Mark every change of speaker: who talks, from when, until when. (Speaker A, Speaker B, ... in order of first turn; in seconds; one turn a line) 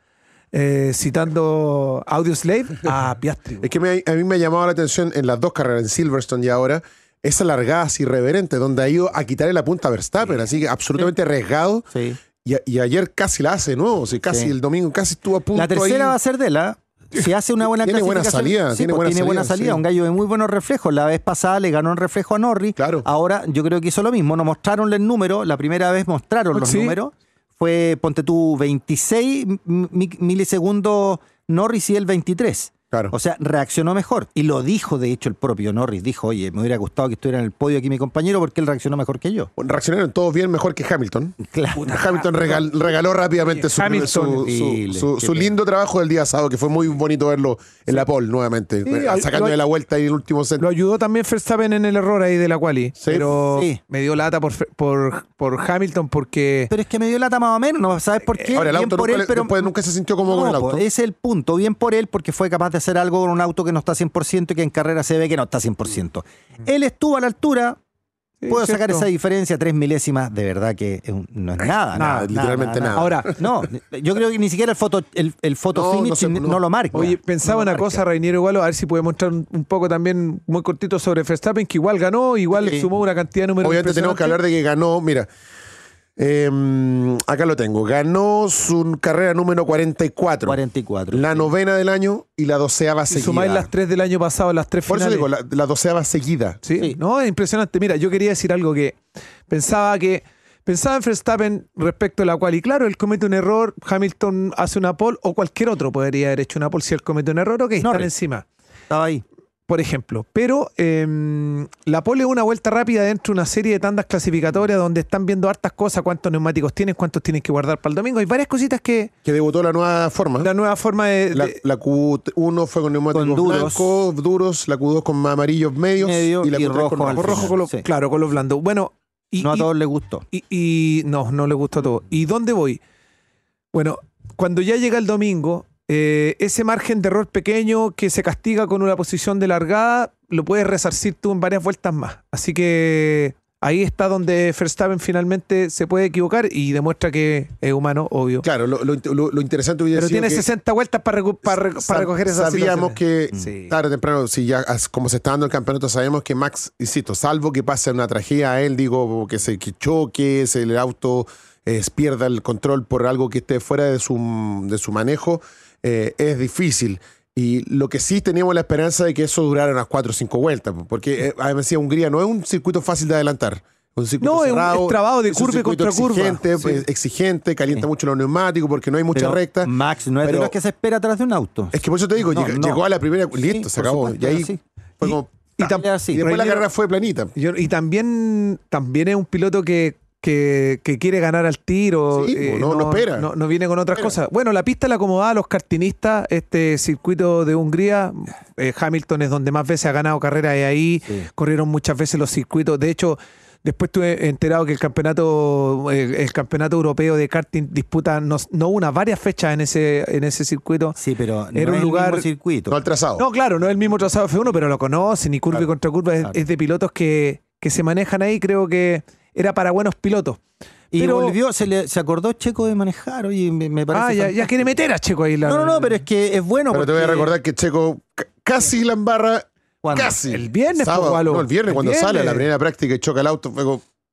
Speaker A: 0.5-3.7
Speaker B: 3.6-11.9
Speaker C: 11.9-12.2
Speaker B: 12.4-16.1
Speaker C: 15.5-39.5
Speaker B: 17.6-19.8
Speaker B: 22.8-23.0
Speaker A: 26.5-27.0
Speaker B: 39.6-50.6
Speaker C: 41.4-41.9
Speaker A: 41.8-42.6
Speaker A: 43.5-44.5
Speaker C: 44.4-45.5
Speaker A: 48.8-49.6
Speaker A: 50.6-56.7
Speaker B: 53.0-53.3
Speaker C: 53.5-53.8
Speaker C: 56.7-59.7
Speaker B: 58.5-60.8
Speaker C: 60.2-67.8
Speaker A: 68.4-69.1
Speaker C: 68.5-78.0
Speaker B: 71.9-73.4
Speaker A: 71.9-72.3
Speaker A: 72.9-73.3
Speaker B: 75.7-77.1
Speaker A: 76.9-84.4
Speaker C: 82.6-82.9
Speaker B: 83.6-85.3
Speaker B: 86.2-90.6
Speaker C: 90.5-91.5
Speaker B: 91.1-93.7
Speaker A: 93.1-95.3
Speaker B: 94.9-96.6
Speaker A: 96.6-108.5
Speaker C: 107.8-108.1
Speaker C: 108.9-109.2
Speaker A: 109.7-119.1
Speaker B: 119.2-120.5
Speaker A: 120.4-121.6
Speaker B: 121.3-127.5
Speaker C: 123.1-123.9
Speaker C: 126.0-127.8
Speaker A: 127.1-129.7
Speaker C: 129.4-130.2
Speaker A: 130.3-132.8
Speaker A: 133.7-148.4
Speaker B: 148.4-150.4
Speaker A: 149.9-153.7
Speaker B: 151.5-179.7
Speaker A: 174.2-176.8
Speaker C: 179.1-182.8
Speaker B: 180.2-180.5
Speaker B: 181.7-187.3
Speaker C: 183.3-184.6
Speaker A: 185.0-186.6
Speaker C: 185.6-186.2
Speaker A: 187.3-211.0
Speaker B: 192.1-193.3
Speaker C: 210.9-212.8
Speaker A: 211.5-212.3
Speaker B: 212.7-213.2
Speaker A: 213.2-220.4
Speaker C: 220.9-224.6
Speaker A: 220.9-221.4
Speaker A: 223.9-226.0
Speaker C: 225.4-227.3
Speaker B: 226.7-233.8
Speaker C: 229.8-230.2
Speaker A: 230.2-232.5